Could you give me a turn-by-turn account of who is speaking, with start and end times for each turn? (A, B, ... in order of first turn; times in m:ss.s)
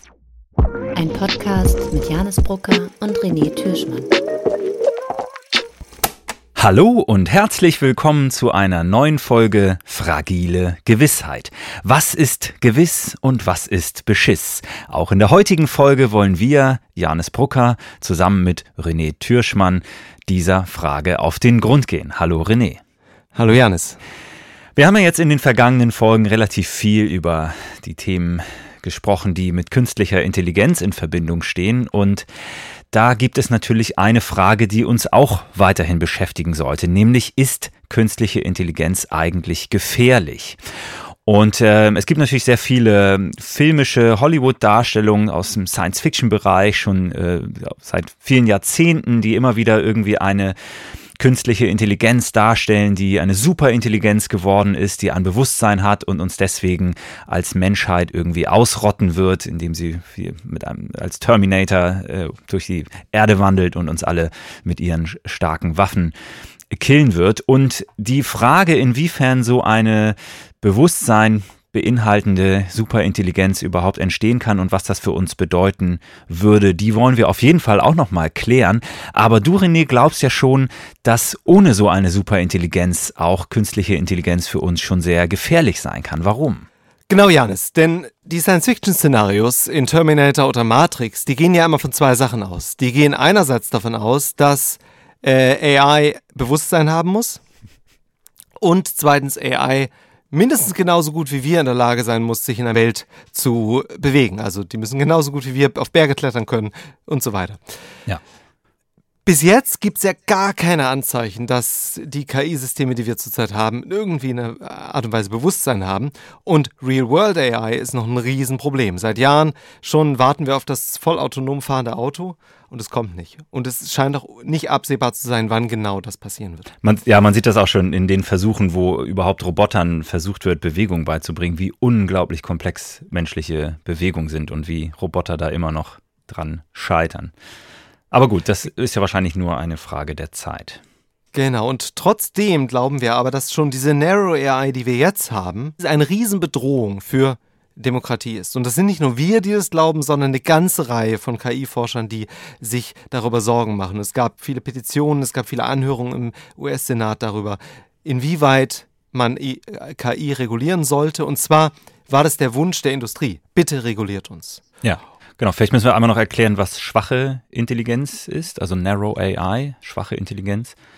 0:00.9-0:04.1 A
0:06.6-0:22.8 B
0:23.4-0:24.0 C
0:24.8-0:32.3 B
0:32.9-0:40.6 B
0:41.2-0:50.6 B
0:51.2-1:06.1 B
1:06.7-1:26.6 B
1:27.1-1:37.4 C
1:38.6-1:47.6 C
1:49.2-2:06.7 C
2:06.8-2:17.3 B
2:18.1-2:20.8 B
2:21.3-2:44.6 C
2:44.8-2:50.7 B